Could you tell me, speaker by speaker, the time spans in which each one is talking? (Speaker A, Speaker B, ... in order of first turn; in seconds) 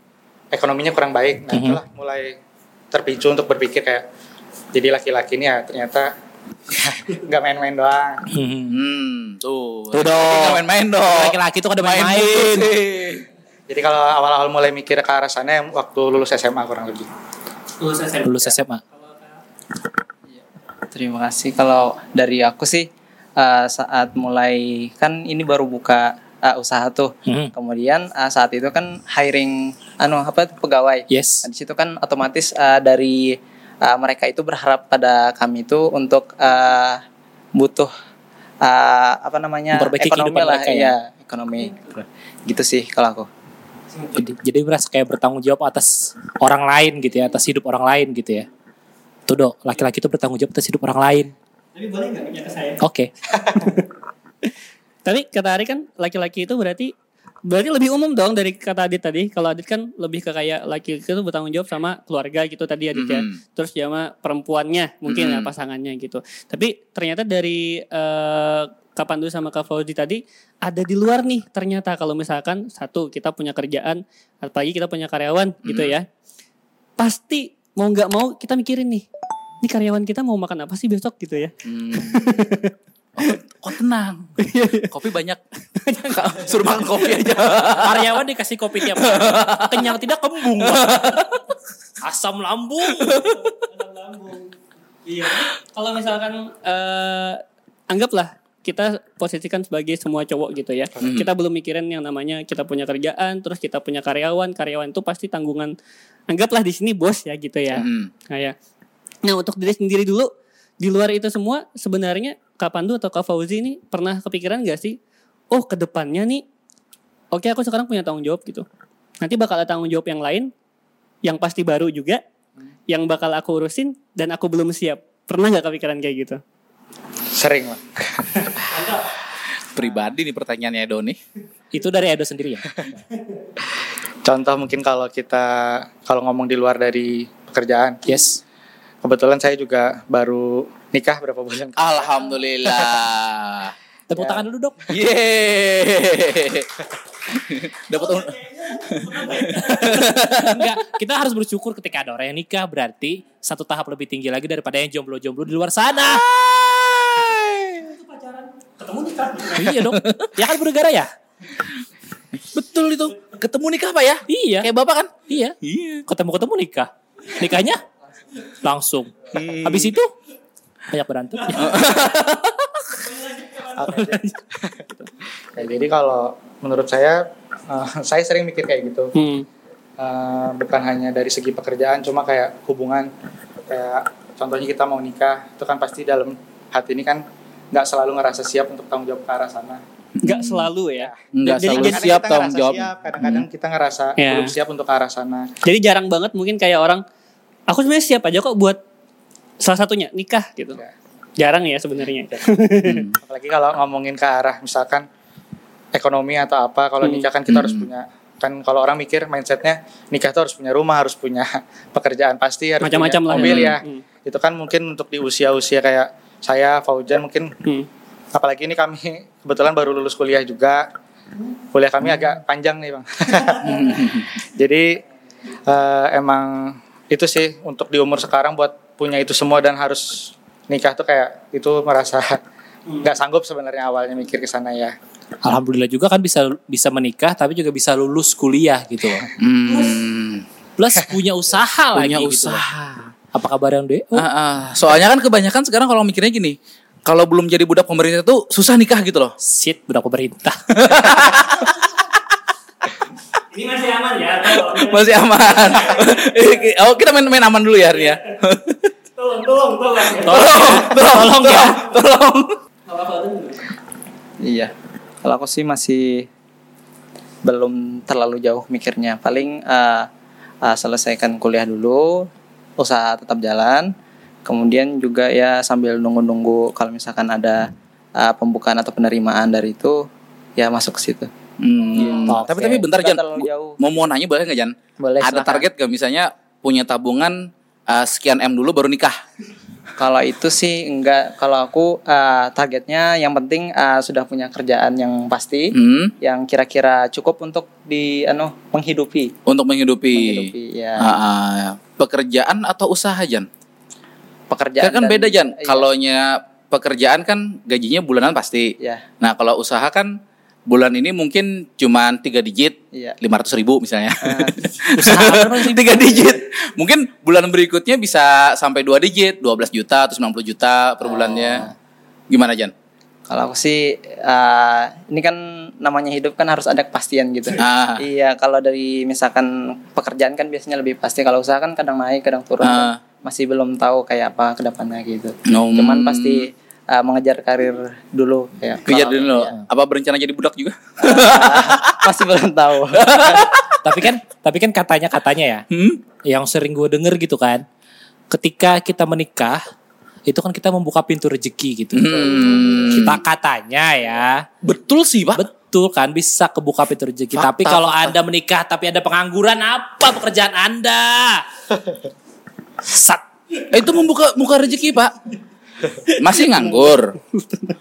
Speaker A: 0.5-2.4, 2.9-4.0, 4.7-6.1, 6.7-8.2, 13.7-17.1, 127.3-128.6, 134.2-138.0, 139.0-142.1, 142.7-143.0, 144.1-144.4, 173.8-174.8, 175.5-179.1, 180.0-183.1, 183.7-189.8, 191.0-195.5, 203.2-205.1, 205.9-217.5, 218.3-220.9, 221.7-225.0, 225.7-232.4, 233.0-234.9
Speaker B: 1.5-1.8, 8.3-8.8, 9.9-12.7, 18.2-18.8, 31.1-31.5, 39.7-40.9, 44.1-48.5, 49.3-51.3, 52.8-53.1, 87.8-91.1, 92.0-93.3, 131.7-132.9, 138.1-138.4, 144.1-144.8, 150.0-156.2, 159.6-161.1, 164.3-164.7, 165.3-167.8, 168.5-170.1, 170.9-171.8, 235.4-239.3, 240.8-242.7, 243.3-244.2, 249.4-250.6, 260.2-261.8, 282.3-282.9, 314.9-316.0, 343.8-345.6, 346.2-347.6, 348.3-349.6, 350.3-354.4, 355.3-361.4, 362.8-363.2
Speaker C: 8.7-13.2, 62.9-63.4, 65.1-65.5, 75.6-75.9, 81.6-82.3, 83.2-85.4, 86.1-88.1, 88.9-91.4, 93.0-93.3, 101.0-101.3, 107.7-108.1, 129.7-131.2, 141.8-143.7, 144.9-150.7, 156.0-157.9, 159.8-160.3, 162.4-166.1, 169.3-169.9, 171.5-172.6, 190.2-190.7, 191.3-193.4, 202.8-203.2, 207.5-207.8, 213.3-213.7, 223.6-224.3, 239.4-240.4, 241.9-243.1, 244.1-249.3, 250.7-252.2, 254.7-258.9, 260.2-262.6, 281.6-289.2, 295.7-296.1, 299.4-303.5, 304.8-321.7, 322.3-322.7, 327.6-328.0, 332.6-333.0, 335.5-336.4, 338.9-342.0, 342.9-343.8, 345.7-346.0, 351.9-353.2, 354.6-355.4, 357.3-358.1, 363.7-365.1, 366.1-367.1
Speaker D: 17.8-19.4, 51.8-52.8, 53.4-53.9, 55.0-56.9, 57.5-76.1, 77.0-79.0, 79.6-82.7, 84.4-84.9, 85.8-86.4, 93.2-94.5, 95.0-105.7, 106.3-108.5, 109.2-115.0, 115.5-116.4, 117.3-118.6, 119.2-120.5, 121.2-122.2, 122.9-126.4, 128.7-129.0, 147.9-150.1, 157.8-159.7, 173.0-174.3, 179.1-179.4, 190.2-192.0, 194.2-194.5, 195.6-197.0, 197.7-198.8, 199.6-200.8, 201.4-203.1, 212.8-214.0, 239.7-240.0, 253.5-256.4, 259.2-260.8, 262.9-263.6, 366.1-367.6
Speaker E: 20.3-37.0, 37.5-37.9, 38.6-43.3, 264.4-266.3, 267.4-270.1, 270.6-273.9, 274.4-277.6, 278.2-280.1, 280.6-281.3, 281.9-283.8, 285.2-285.6, 290.0-299.3, 300.1-301.1, 304.5-305.9, 308.8-309.0, 314.2-314.8, 321.0-321.7, 323.3-339.6, 341.0-343.5